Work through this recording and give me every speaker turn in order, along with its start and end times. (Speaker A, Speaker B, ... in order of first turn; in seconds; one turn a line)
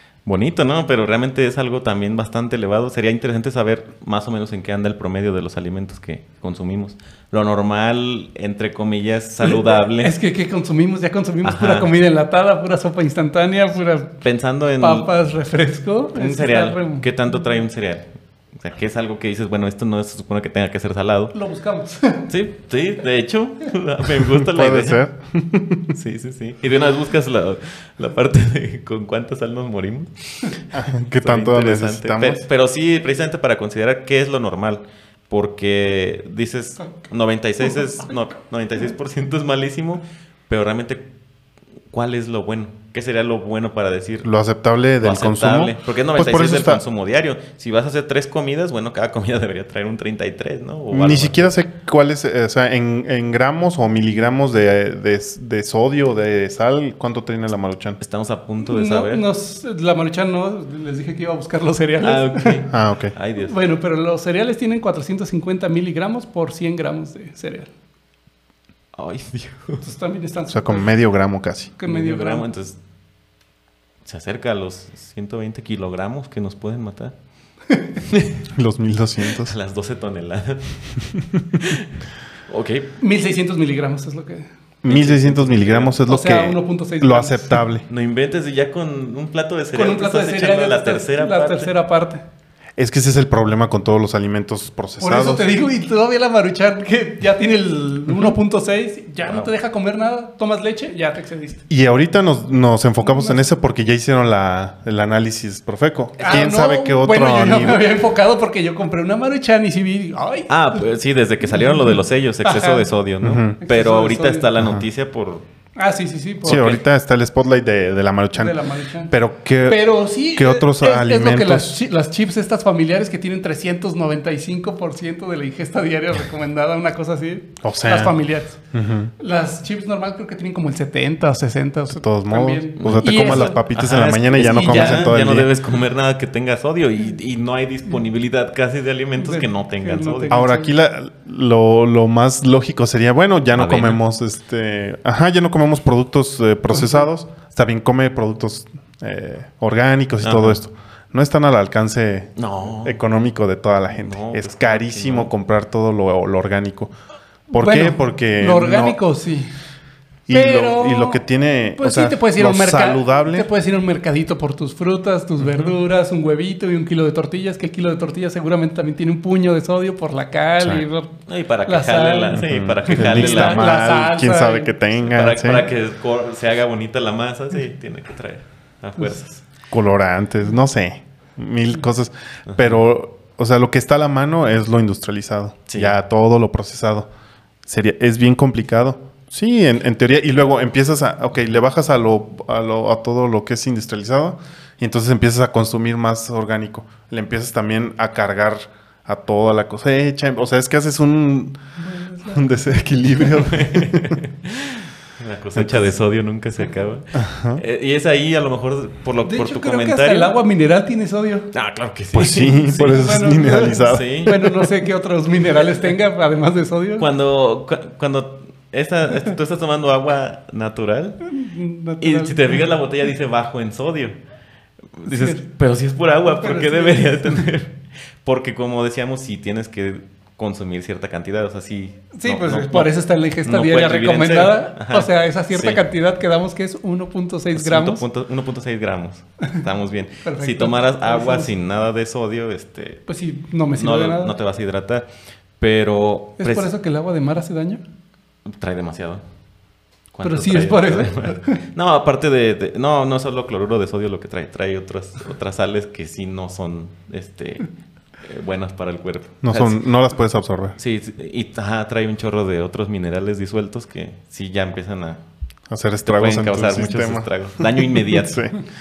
Speaker A: 0.2-10.1
Speaker B: 9.4-14.2
Speaker A: 11.4-11.9
Speaker A: 14.2-15.1
Speaker B: 14.8-17.1
Speaker A: 16.1-21.3
Speaker B: 21.3-22.3
Speaker A: 22.3-25.0
Speaker C: 24.4-25.9
Speaker A: 25.9-41.1
Speaker C: 30.7-32.5
Speaker A: 41.9-44.3
Speaker C: 44.2-46.8
Speaker A: 45.0-51.5
Speaker C: 50.9-58.0
Speaker A: 58.0-59.2
Speaker B: 58.6-62.6
Speaker A: 62.0-63.5
Speaker C: 62.7-63.1
Speaker B: 63.4-67.7
Speaker A: 69.0-69.8
Speaker B: 69.8-70.9
Speaker C: 70.5-71.7
Speaker B: 71.8-72.5
Speaker A: 71.9-72.8
Speaker A: 74.0-77.1
Speaker A: 78.0-78.4
Speaker C: 78.5-79.5
Speaker A: 79.4-80.8
Speaker C: 81.1-81.4
Speaker A: 81.6-81.9
Speaker A: 82.5-82.9
Speaker B: 83.0-84.5
Speaker C: 84.8-87.9
Speaker A: 84.9-86.0
Speaker B: 86.1-87.6
Speaker A: 87.9-91.7
Speaker B: 89.7-92.2
Speaker C: 92.8-95.5
Speaker B: 95.0-101.6
Speaker A: 99.3-99.5
Speaker C: 101.7-107.9
Speaker B: 103.0-103.4
Speaker B: 106.2-110.8
Speaker A: 110.5-115.5
Speaker B: 112.4-112.9
Speaker C: 113.2-113.6
Speaker B: 113.6-114.5
Speaker B: 115.8-116.7
Speaker C: 116.5-121.8
Speaker A: 116.5-116.8
Speaker B: 118.4-119.1
Speaker B: 119.7-128.6
Speaker C: 127.6-128.2
Speaker C: 128.7-129.1
Speaker B: 129.2-133.6
Speaker C: 131.9-135.5
Speaker A: 132.8-140.4
Speaker B: 134.3-135.1
Speaker B: 139.2-140.7
Speaker C: 140.3-156.9
Speaker A: 143.6-144.0
Speaker A: 150.2-150.6
Speaker A: 152.4-153.0
Speaker A: 154.0-155.3
Speaker C: 157.5-159.0
Speaker B: 157.6-159.5
Speaker C: 160.3-163.5
Speaker B: 160.3-161.2
Speaker B: 161.8-174.7
Speaker C: 170.6-170.9
Speaker A: 171.3-173.7
Speaker C: 172.4-175.7
Speaker A: 175.1-179.4
Speaker C: 179.7-187.1
Speaker A: 182.5-182.8
Speaker A: 185.7-185.9
Speaker C: 187.7-201.6
Speaker B: 201.8-202.6
Speaker C: 202.3-204.2
Speaker A: 203.4-210.3
Speaker C: 205.6-205.9
Speaker C: 207.1-207.6
Speaker B: 209.3-211.5
Speaker A: 211.5-213.1
Speaker C: 212.1-214.5
Speaker B: 212.7-217.1
Speaker A: 213.8-214.6
Speaker A: 217.0-221.3
Speaker B: 221.3-222.7
Speaker A: 222.0-224.2
Speaker A: 225.0-232.9
Speaker B: 225.1-225.4
Speaker B: 226.4-227.5
Speaker B: 232.1-238.0
Speaker A: 233.4-235.8
Speaker A: 237.5-243.0
Speaker B: 240.2-241.5
Speaker B: 243.1-244.4
Speaker A: 243.7-245.1
Speaker A: 245.6-246.7
Speaker B: 246.4-247.8
Speaker A: 248.5-249.2
Speaker A: 250.1-257.7
Speaker B: 250.2-251.6
Speaker A: 258.2-259.9
Speaker C: 259.4-260.8
Speaker A: 260.8-265.2
Speaker C: 265.7-268.6
Speaker A: 266.1-268.6